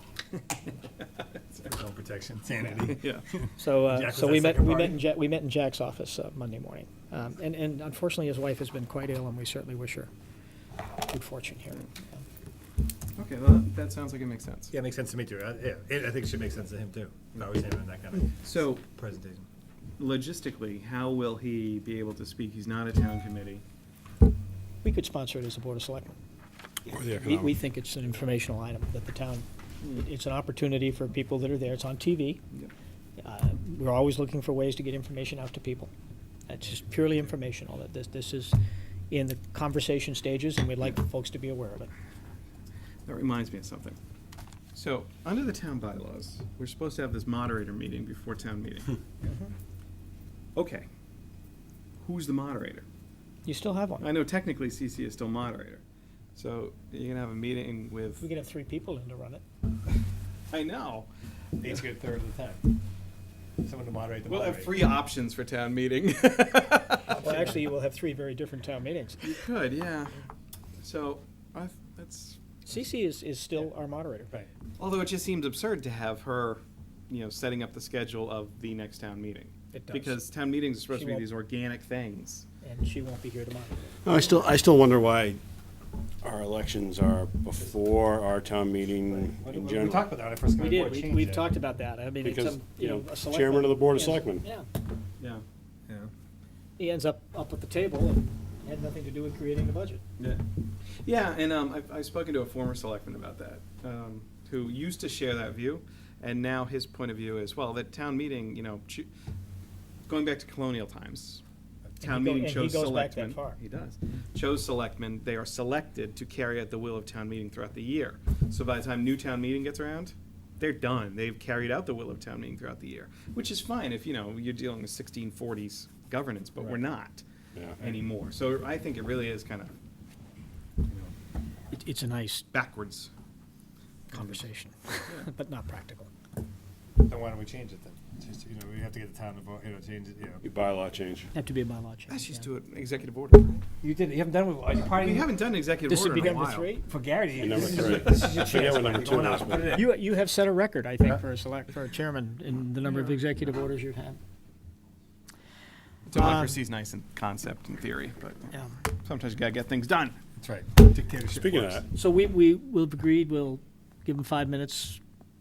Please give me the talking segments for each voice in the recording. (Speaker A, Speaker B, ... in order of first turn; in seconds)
Speaker A: 1.0-1.7, 2.8-3.2, 13.2-14.7, 18.4-18.8, 20.0-23.6, 43.0-44.0, 44.7-49.0, 50.5-50.9, 52.0-52.9, 54.0-55.8, 56.4-58.2, 60.5-61.1, 64.2-67.5, 69.2-70.1, 70.8-72.4, 74.8-82.5, 95.2-95.4, 100.2-109.1, 110.1-111.4, 112.0-127.2, 127.8-129.7, 132.5-133.1, 134.1-134.4, 142.1-143.6, 144.8-146.7, 147.8-148.4, 152.9-153.2, 156.1-160.2
Speaker B: 1.6-5.0, 14.7-19.5, 61.6-62.7, 63.6-64.9, 89.0-91.5, 137.0-140.4, 143.8-145.3, 146.8-149.9, 160.4-161.8
Speaker C: 3.6-10.1, 11.1-12.2, 24.8-26.2, 27.1-32.4, 33.2-35.9, 36.5-38.6, 39.1-41.9, 49.2-49.5, 53.4-54.1, 58.2-59.4, 67.1-69.3, 72.7-74.3, 79.7-80.2, 80.9-81.2, 82.6-84.4, 90.5-94.7, 96.8-100.0, 112.0-113.6, 131.7-132.4, 134.1-136.1, 141.3-142.4, 145.9-146.9, 147.7-148.3, 149.6-154.2, 156.1-156.6, 161.9-165.0
Speaker D: 26.9-27.5, 84.0-85.4, 86.2-90.1, 92.2-94.4, 127.5-127.8, 140.4-141.3, 147.4-149.8, 161.3-161.8